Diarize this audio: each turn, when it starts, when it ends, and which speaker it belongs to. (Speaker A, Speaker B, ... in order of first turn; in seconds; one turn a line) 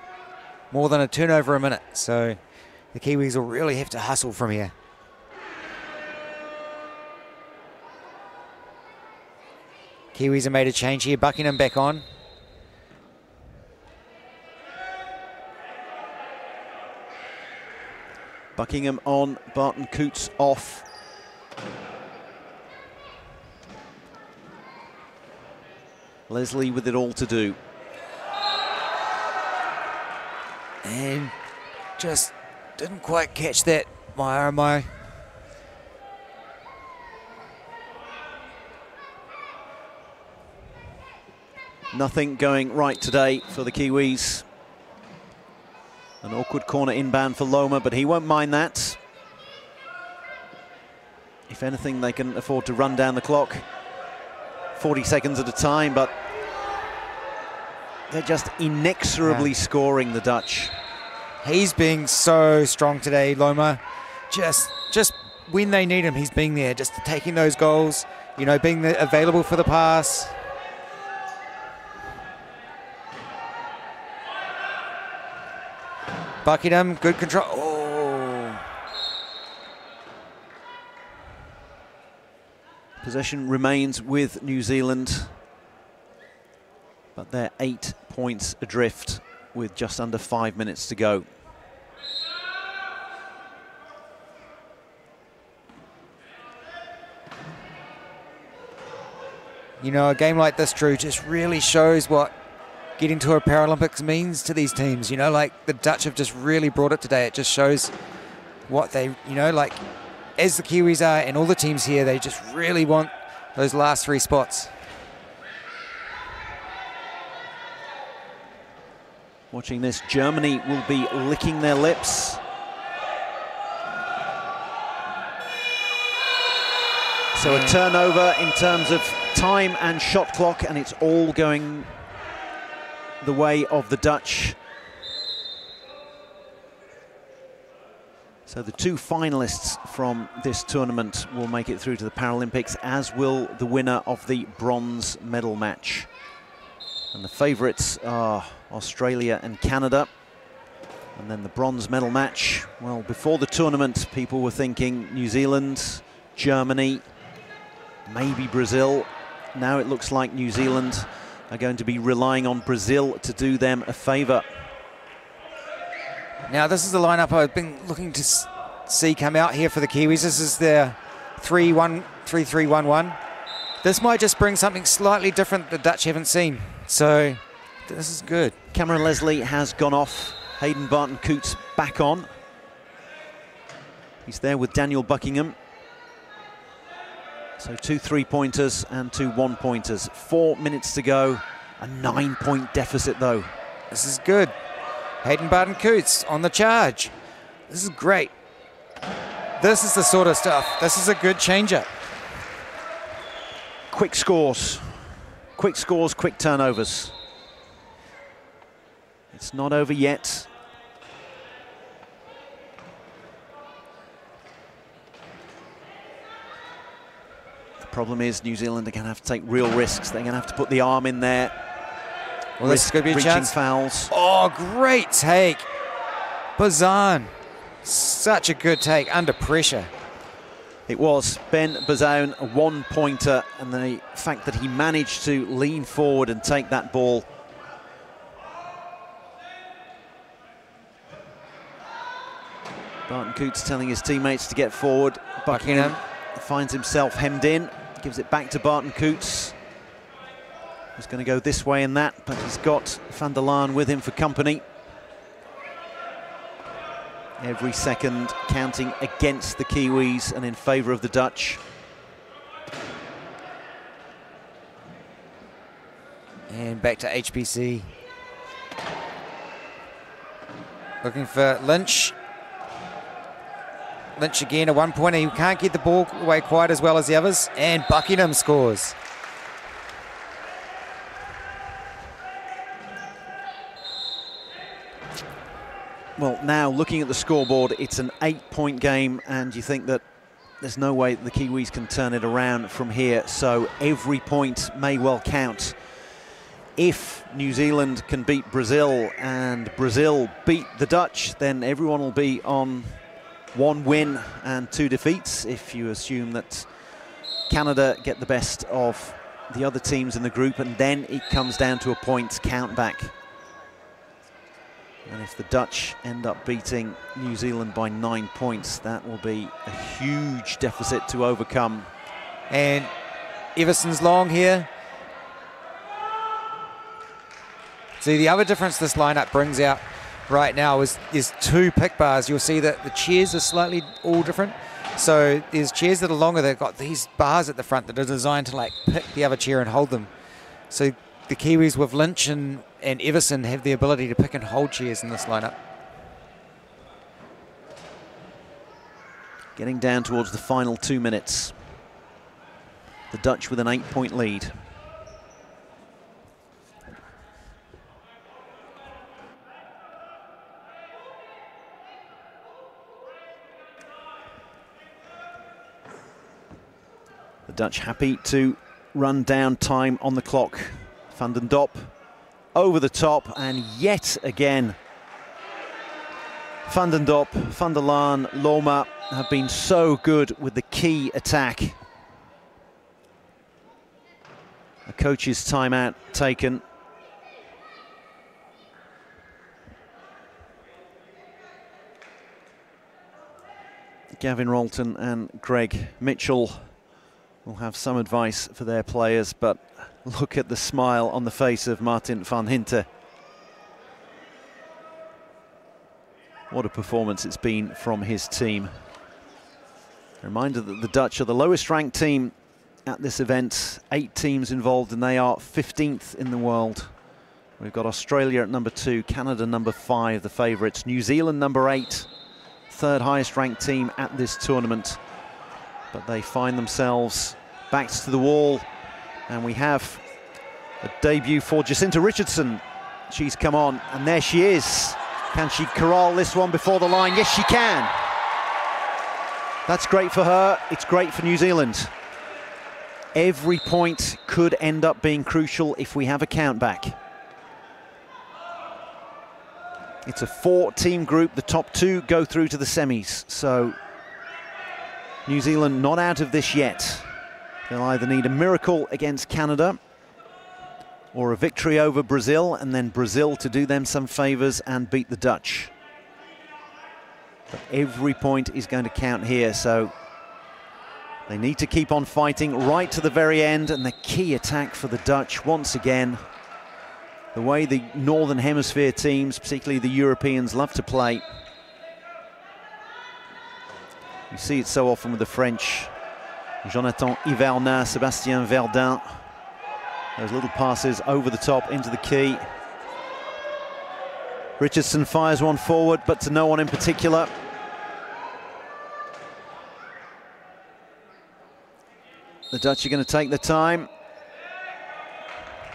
Speaker A: 0.7-4.7
Speaker A: 10.1-12.1
Speaker B: 18.6-20.9
Speaker B: 26.3-27.6
Speaker A: 30.8-31.3
Speaker A: 32.0-35.0
Speaker B: 41.9-44.5
Speaker B: 46.2-49.0
Speaker B: 51.5-53.7
Speaker B: 54.8-56.1
Speaker B: 58.1-60.8
Speaker A: 59.2-59.5
Speaker A: 61.4-70.3
Speaker A: 76.4-78.6
Speaker B: 83.0-85.4
Speaker B: 87.1-91.3
Speaker A: 99.8-102.3
Speaker A: 103.0-107.9
Speaker A: 108.7-109.8
Speaker A: 110.4-114.7
Speaker B: 119.5-122.4
Speaker B: 127.3-131.9
Speaker A: 127.4-127.8
Speaker B: 133.2-134.6
Speaker B: 138.4-146.1
Speaker B: 147.1-150.1
Speaker B: 151.1-157.1
Speaker B: 158.1-164.5
Speaker A: 166.5-173.2
Speaker A: 173.8-178.5
Speaker B: 178.7-182.3
Speaker B: 184.2-185.6
Speaker B: 187.6-193.5
Speaker A: 193.9-194.5
Speaker A: 195.2-197.1
Speaker A: 197.7-198.3
Speaker A: 199.6-201.9
Speaker B: 203.9-207.2
Speaker B: 209.3-210.5
Speaker B: 217.8-221.6
Speaker B: 222.6-224.1
Speaker A: 222.6-223.5
Speaker A: 224.1-225.7
Speaker A: 226.6-227.3
Speaker A: 227.8-229.9
Speaker B: 230.9-237.3
Speaker B: 243.1-249.6
Speaker A: 245.5-246.0
Speaker B: 250.9-254.6
Speaker B: 257.4-261.6
Speaker A: 266.5-267.9
Speaker A: 271.0-272.1
Speaker A: 274.2-278.9
Speaker B: 286.2-290.0
Speaker B: 290.6-295.8
Speaker B: 296.8-303.0
Speaker B: 303.5-306.7
Speaker B: 307.5-313.1
Speaker B: 315.1-321.9
Speaker A: 322.5-322.9
Speaker A: 323.5-324.7
Speaker A: 328.0-340.1
Speaker A: 340.7-345.6
Speaker B: 349.5-351.6
Speaker B: 353.1-354.6
Speaker B: 367.5-371.9
Speaker B: 372.5-374.8
Speaker B: 376.6-381.8
Speaker B: 384.9-386.6
Speaker B: 394.1-396.8
Speaker B: 397.4-402.9
Speaker B: 406.5-408.8
Speaker B: 410.2-412.3
Speaker B: 412.9-416.9
Speaker B: 417.6-422.1
Speaker B: 422.7-425.0
Speaker B: 425.9-428.7
Speaker B: 429.3-430.0
Speaker B: 430.8-438.0
Speaker B: 439.6-441.9
Speaker B: 443.1-447.0
Speaker B: 450.0-453.8
Speaker B: 455.2-459.8
Speaker B: 461.1-465.7
Speaker B: 467.5-469.9
Speaker B: 471.3-476.2
Speaker B: 477.3-481.2
Speaker B: 484.3-485.9
Speaker B: 486.6-489.3
Speaker B: 490.2-492.5
Speaker B: 494.6-497.3
Speaker B: 502.5-503.9